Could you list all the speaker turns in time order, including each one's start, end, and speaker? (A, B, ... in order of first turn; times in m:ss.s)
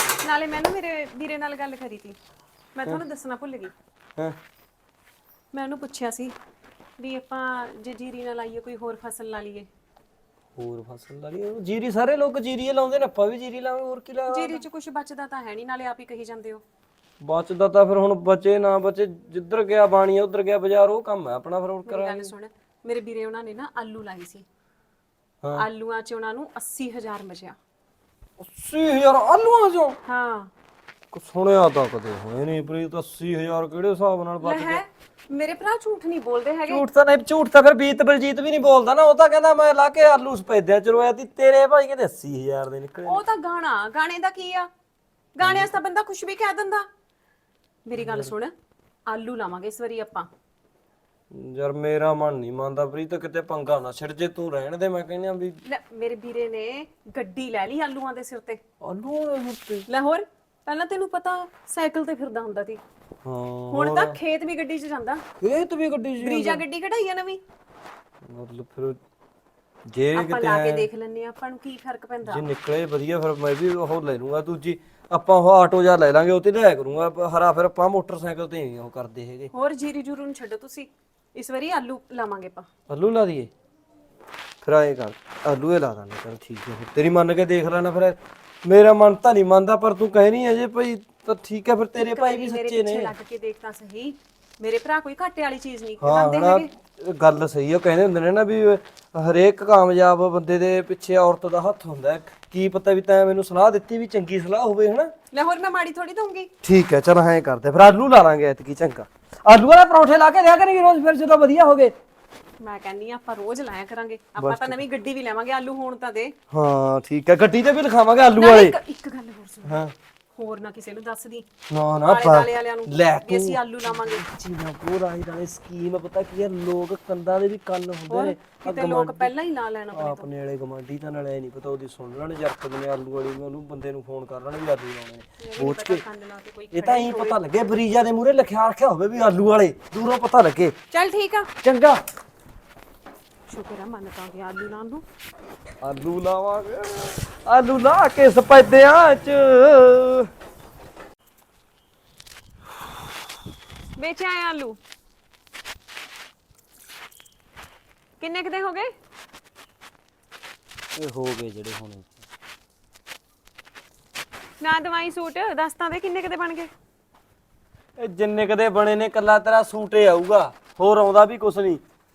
0:00.2-0:02.2 A
0:02.7-0:03.7 A
0:05.5-0:06.3 A
0:07.0-0:09.7 A
0:10.6-0:14.6 B
0:14.3-0:16.6 A
0:17.2-0:22.3 B
0:21.8-0:24.4 A
0:25.5-0:27.6 A
0:28.4-0:30.0 B
0:30.0-0:30.5 A
0:31.1-0:34.8 B
0:34.4-0:36.8 A
0:36.7-0:43.2 B
0:43.0-0:44.7 A
0:45.4-0:46.8 A
0:45.4-0:45.7 B
0:47.8-0:48.5 A
0:48.0-0:48.3 B
0:49.1-0:50.3 A
0:51.3-0:55.6 B
0:55.6-0:58.6 A
0:58.8-0:59.9 B
0:59.9-1:02.8 A
1:03.2-1:04.2 B
1:03.7-1:05.2 A
1:05.4-1:06.6 B
1:06.2-1:07.4 A
1:08.2-1:09.0 B
1:09.9-1:10.9 B
1:10.1-1:12.4 A
1:12.2-1:19.5 B
1:19.5-1:22.7 A
1:22.9-1:23.5 B
1:24.6-1:33.1 B
1:32.0-1:36.7 A
1:36.0-1:45.1 B
1:45.3-1:46.5 A
1:46.6-1:51.9 B
1:52.6-1:56.3 A
1:54.4-1:54.8 B
1:56.5-1:58.8 B
1:58.3-1:59.8 A
1:59.6-1:59.9 B
2:00.3-2:01.4 A
2:01.7-2:09.3 B
2:02.0-2:04.2 A
2:08.1-2:10.3 A
2:09.9-2:16.0 B
2:15.4-2:17.4 A
2:16.7-2:20.7 B
2:20.9-2:21.5 A
2:21.6-2:22.0 B
2:23.5-2:25.0 A
2:25.8-2:30.3 B
2:34.0-2:34.8 A
2:38.2-2:38.9 A
2:40.9-2:42.2 B
2:44.6-2:46.7 A
2:48.0-2:51.8 B